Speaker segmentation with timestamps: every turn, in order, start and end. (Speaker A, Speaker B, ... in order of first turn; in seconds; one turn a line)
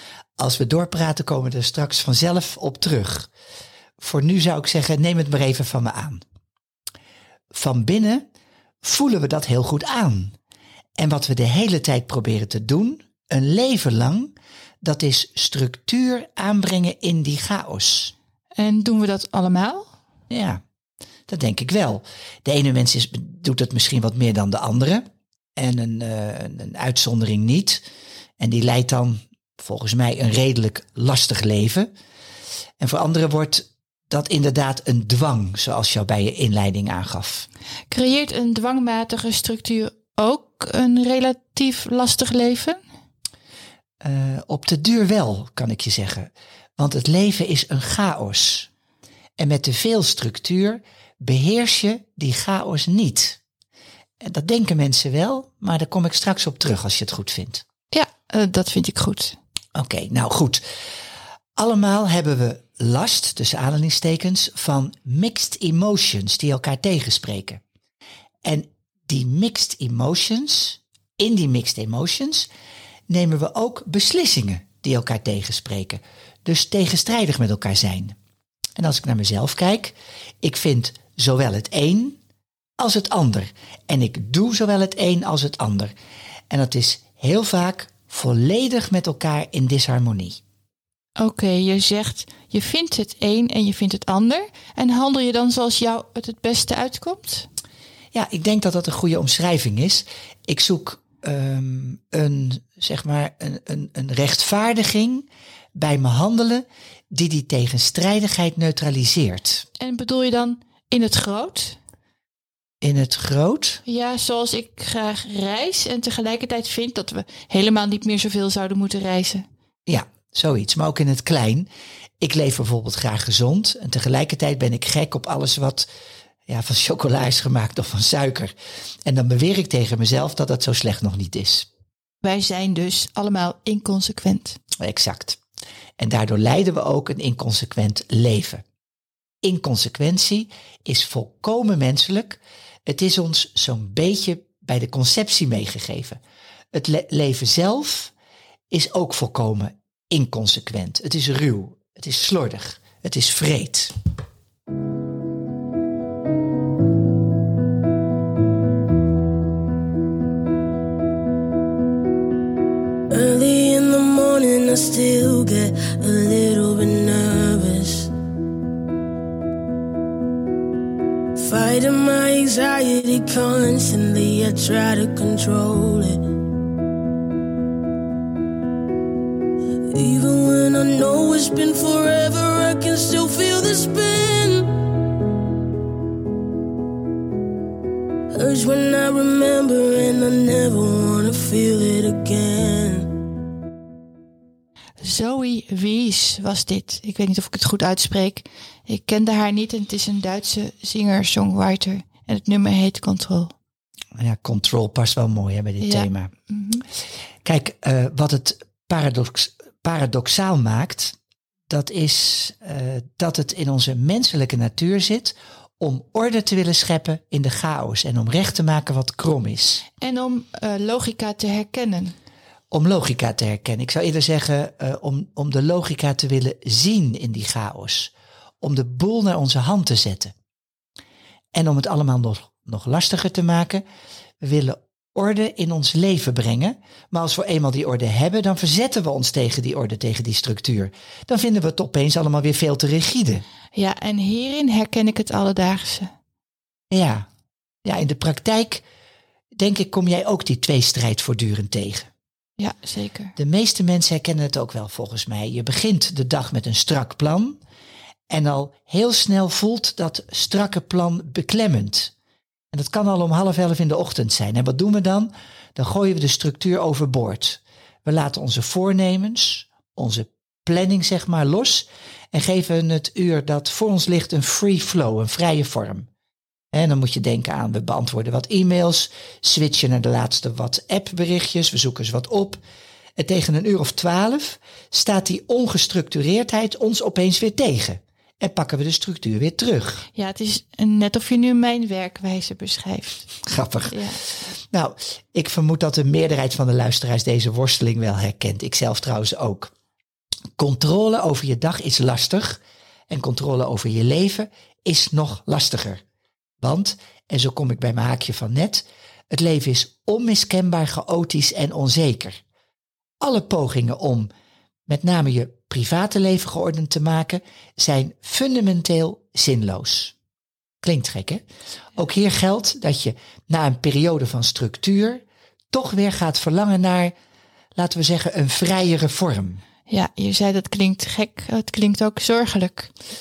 Speaker A: 0.4-3.3
Speaker A: 4.0-6.2
Speaker A: 7.5-8.2
Speaker A: 8.8-10.3
Speaker A: 11.0-18.1
Speaker B: 18.6-19.9
Speaker A: 20.3-20.6
Speaker A: 21.3-25.0
Speaker A: 25.6-27.8
Speaker A: 28.4-31.9
Speaker A: 32.8-37.5
Speaker B: 37.9-42.8
Speaker A: 44.0-48.7
Speaker A: 49.4-53.4
Speaker A: 54.2-57.6
Speaker B: 57.9-59.4
Speaker A: 59.7-60.6
Speaker A: 61.6-67.6
Speaker A: 68.4-72.5
Speaker A: 73.1-78.2
Speaker A: 78.8-82.2
Speaker A: 82.8-85.9
Speaker A: 86.5-90.4
Speaker B: 91.2-97.5
Speaker A: 98.1-109.6
Speaker B: 109.8-111.8
Speaker A: 112.8-113.8
Speaker B: 113.8-119.5
Speaker A: 119.9-121.7
Speaker A: 122.2-125.9
Speaker A: 126.5-128.5
Speaker A: 129.1-131.7
Speaker B: 132.2-134.6
Speaker A: 134.8-135.4
Speaker A: 136.0-138.6
Speaker A: 139.4-146.2
Speaker A: 146.7-148.1
Speaker A: 148.7-153.9
Speaker C: 163.1-168.1
Speaker C: 171.3-176.2
Speaker C: 179.9-184.9
Speaker C: 188.3-193.1
Speaker B: 195.0-203.5
Speaker A: 204.2-206.3
Speaker B: 205.8-206.8
Speaker A: 207.4-211.2
Speaker A: 211.7-219.8
Speaker B: 220.0-222.1
Speaker A: 222.7-230.3
Speaker A: 231.5-233.8
Speaker A: 234.4-243.4
Speaker B: 243.7-246.1
Speaker A: 246.9-247.3
Speaker A: 247.8-248.8
Speaker A: 249.6-252.1
Speaker B: 252.6-253.3
Speaker A: 253.4-257.6
Speaker A: 258.3-262.1
Speaker A: 262.7-276.1
Speaker A: 276.7-282.6
Speaker A: 283.2-290.0
Speaker B: 290.1-293.3
Speaker A: 293.4-294.0
Speaker B: 293.9-294.2
Speaker A: 294.7-299.7
Speaker A: 300.6-306.0
Speaker A: 306.6-312.4
Speaker A: 313.2-314.3
Speaker A: 314.9-320.1
Speaker A: 320.8-321.4
Speaker A: 321.9-327.1
Speaker A: 327.8-329.6
Speaker B: 329.9-332.9